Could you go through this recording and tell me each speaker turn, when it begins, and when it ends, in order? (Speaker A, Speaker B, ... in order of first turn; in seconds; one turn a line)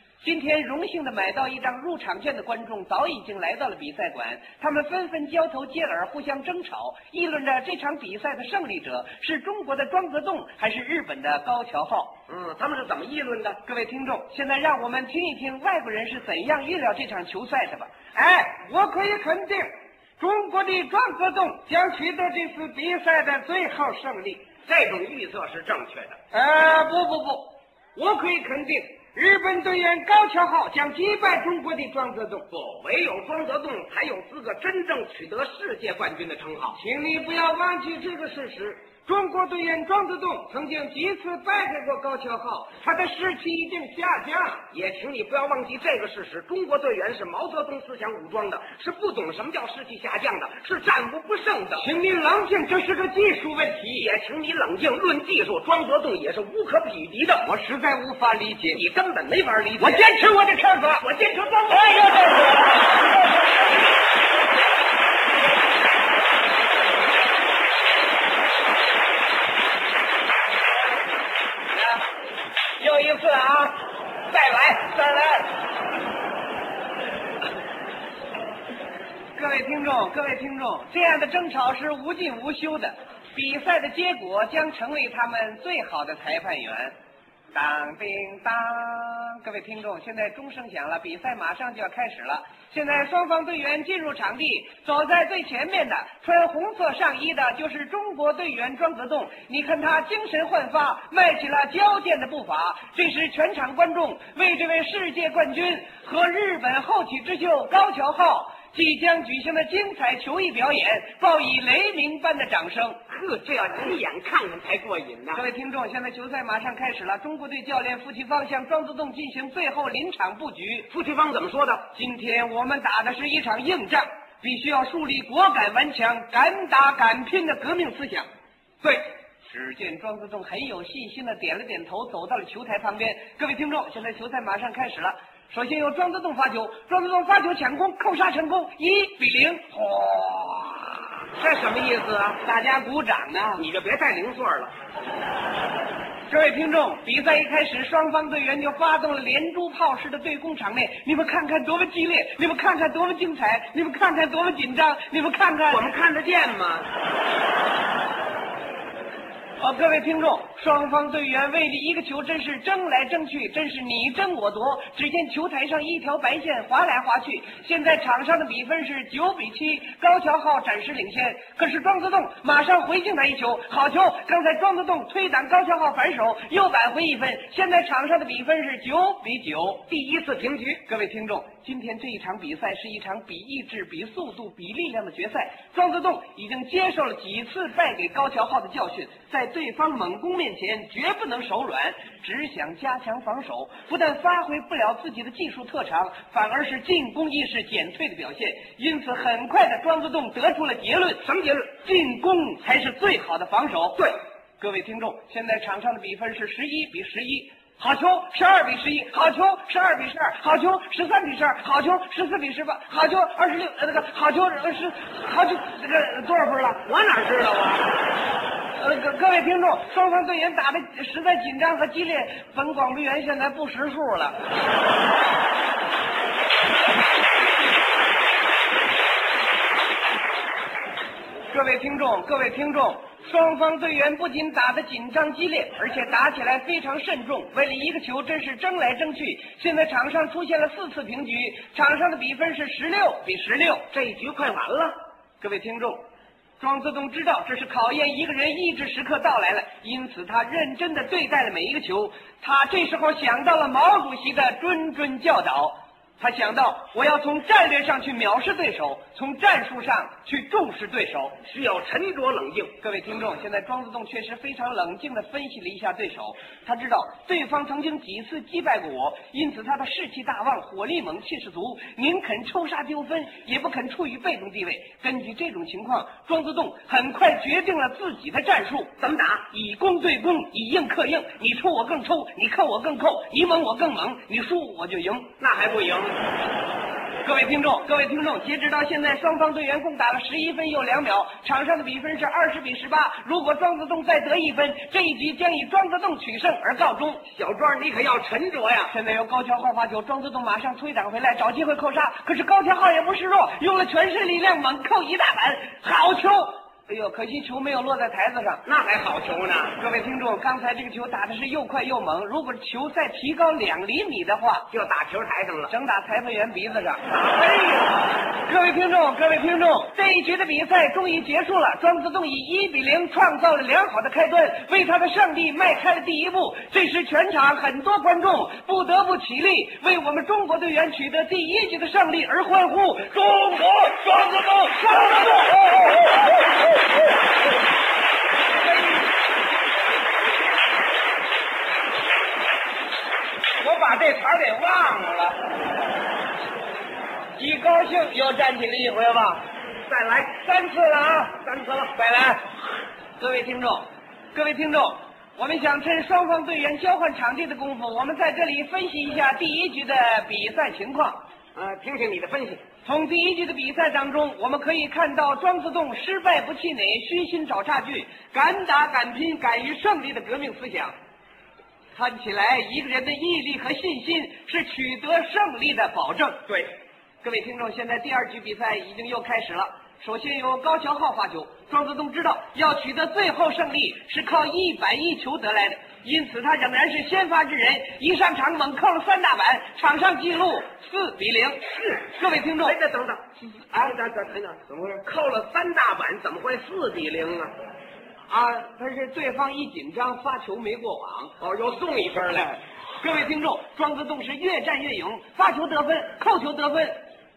Speaker A: 0.2-12.1
Speaker B: 12.3-13.6
Speaker A: 13.7-24.4
Speaker B: 24.7-26.2
Speaker A: 26.3-32.5
Speaker B: 32.5-36.8
Speaker A: 36.8-44.7
Speaker B: 44.7-51.9
Speaker A: 51.8-54.1
Speaker B: 54.0-57.5
Speaker A: 57.4-58.8
Speaker B: 58.7-60.1
Speaker A: 59.8-61.1
Speaker B: 61.0-62.1
Speaker A: 61.7-63.2
Speaker A: 72.8-75.5
Speaker A: 79.3-86.9
Speaker A: 87.5-113.0
Speaker B: 113.1-115.4
Speaker A: 115.3-120.9
Speaker B: 120.9-121.9
Speaker A: 121.9-128.3
Speaker A: 129.5-139.9
Speaker B: 139.9-140.8
Speaker B: 141.3-142.4
Speaker A: 142.4-143.6
Speaker B: 143.6-144.7
Speaker A: 146.3-155.8
Speaker B: 155.7-156.9
Speaker A: 159.6-179.8
Speaker B: 179.9-180.8
Speaker A: 180.8-201.2
Speaker B: 201.2-201.7
Speaker A: 201.8-216.8
Speaker B: 216.8-218.0
Speaker A: 218.8-224.4
Speaker A: 231.5-243.9
Speaker B: 243.9-245.0
Speaker A: 245.4-246.1
Speaker A: 246.6-261.4
Speaker B: 261.4-262.8
Speaker A: 262.8-278.9
Speaker B: 279.0-279.4
Speaker A: 279.5-285.3
Speaker B: 285.4-286.2
Speaker A: 287.2-297.3
Speaker B: 297.3-298.9
Speaker A: 298.9-308.6
Speaker B: 308.6-309.8
Speaker A: 309.8-314.7
Speaker B: 314.7-315.7
Speaker A: 315.7-317.2
Speaker B: 317.1-317.9
Speaker A: 318.4-334.0
Speaker B: 333.9-335.8
Speaker A: 334.9-335.8
Speaker B: 343.6-345.4
Speaker A: 347.4-349.4
Speaker B: 349.9-350.4
Speaker A: 350.4-352.4
Speaker B: 351.4-352.0
Speaker A: 353.2-361.2
Speaker B: 361.6-362.6
Speaker A: 362.9-370.9
Speaker A: 371.9-376.5
Speaker A: 377.2-392.8
Speaker B: 392.6-397.6
Speaker A: 398.3-401.4
Speaker B: 401.4-402.6
Speaker A: 403.0-407.0